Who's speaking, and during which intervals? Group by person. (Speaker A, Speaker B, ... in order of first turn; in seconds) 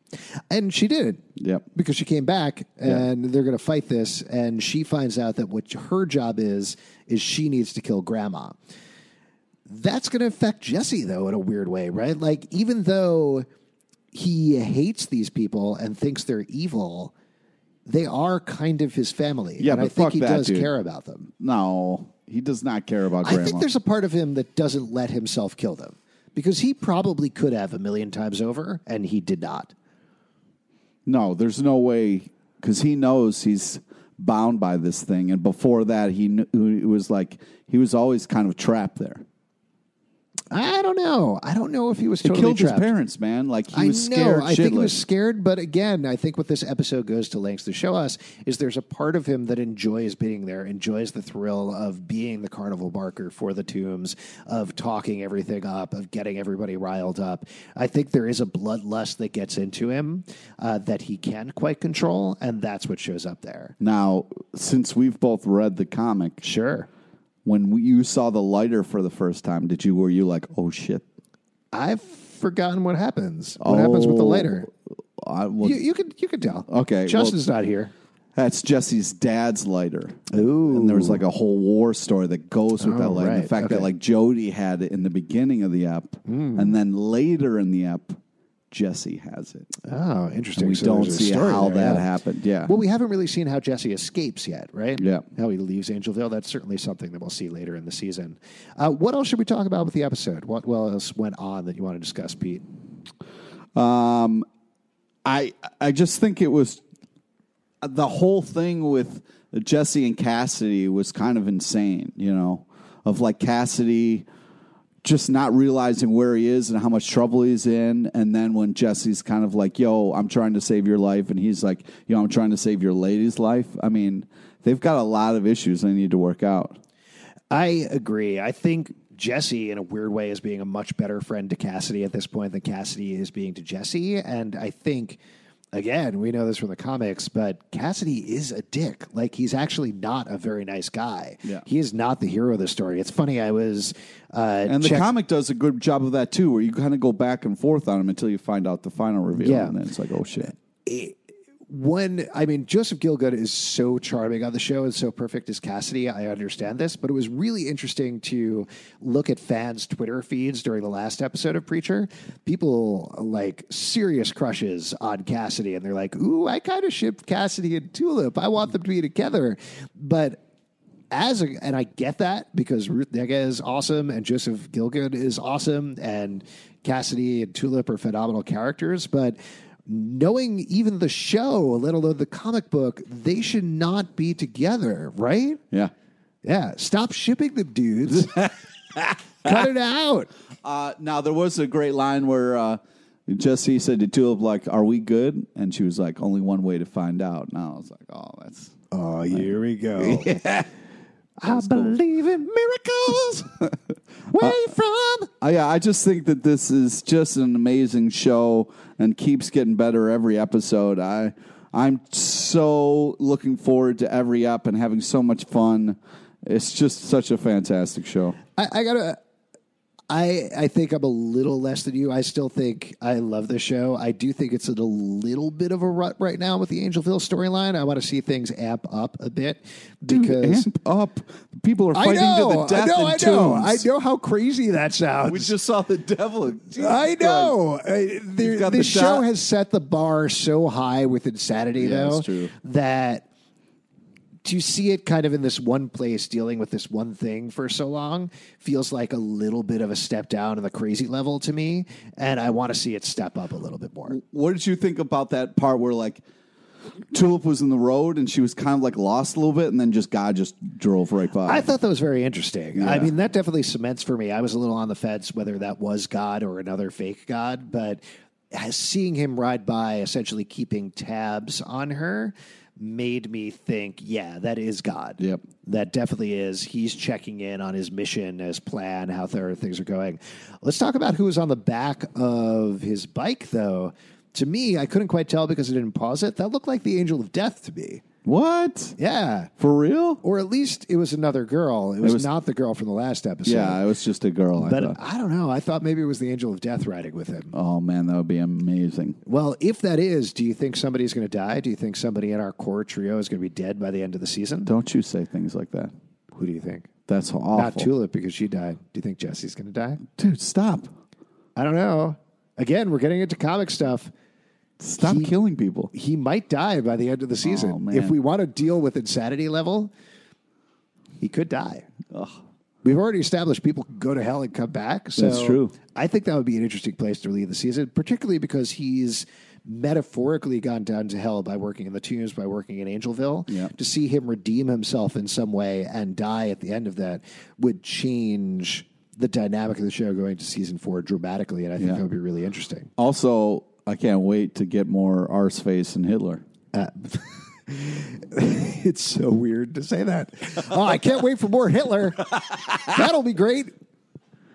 Speaker A: 0.5-1.2, 1.7-8.6, 9.7-13.4, 14.1-17.1, 17.9-21.3, 23.2-29.7, 40.5-42.9, 43.7-63.7, 66.4-66.9, 71.7-74.7, 75.6-77.9, 80.3-81.2, 82.8-83.9, 86.2-86.7, 89.8-92.1, 92.6-102.6, 127.5-135.2, 135.7-145.1, 149.3-149.8, 150.4-151.2, 151.7-170.4, 171.1-185.6, 186.4-188.5, 189.4-190.3, 198.9-200.4, 201.4-203.6, 204.3-205.3, 218.6-219.2, 220.1-230.7, 231.9-235.5, 236.8-243.3, 244.4-254.2, 261.4-268.0, 268.5-288.0, 289.0-289.5, 290.2-293.8, 294.6-297.5, 299.2-304.7, 306.3-306.9, 307.5-310.0, 311.6-314.1, 315.0-315.3, 315.9-319.9, 321.2-321.9, 322.8-342.9, 346.7-353.7
Speaker B: 1.4-1.6, 19.6-20.7, 21.4-23.6, 31.1-39.2, 42.2-45.0, 63.8-66.4, 67.4-71.0, 73.6-74.6, 75.2-75.8, 76.7-77.3, 78.3-88.2, 88.7-89.7, 90.5-92.7, 95.0-95.2, 103.7-104.4, 105.2-106.8, 107.8-114.2, 115.0-126.8, 144.7-150.5, 188.1-189.6, 190.6-198.7, 199.3-200.6, 201.4-202.0, 205.4-218.4, 230.1-233.8, 235.2-237.6, 238.4-239.2, 241.8-242.5, 254.1-256.2, 257.1-261.7, 262.7-263.1, 288.2-288.9, 289.6-290.2, 292.0-292.3, 293.4-295.0, 297.5-299.2, 304.6-305.9, 307.1-307.9, 310.2-310.9, 314.8-315.9, 317.4-318.1, 322.1-322.4, 325.2-325.7, 333.5-333.7, 343.0-346.4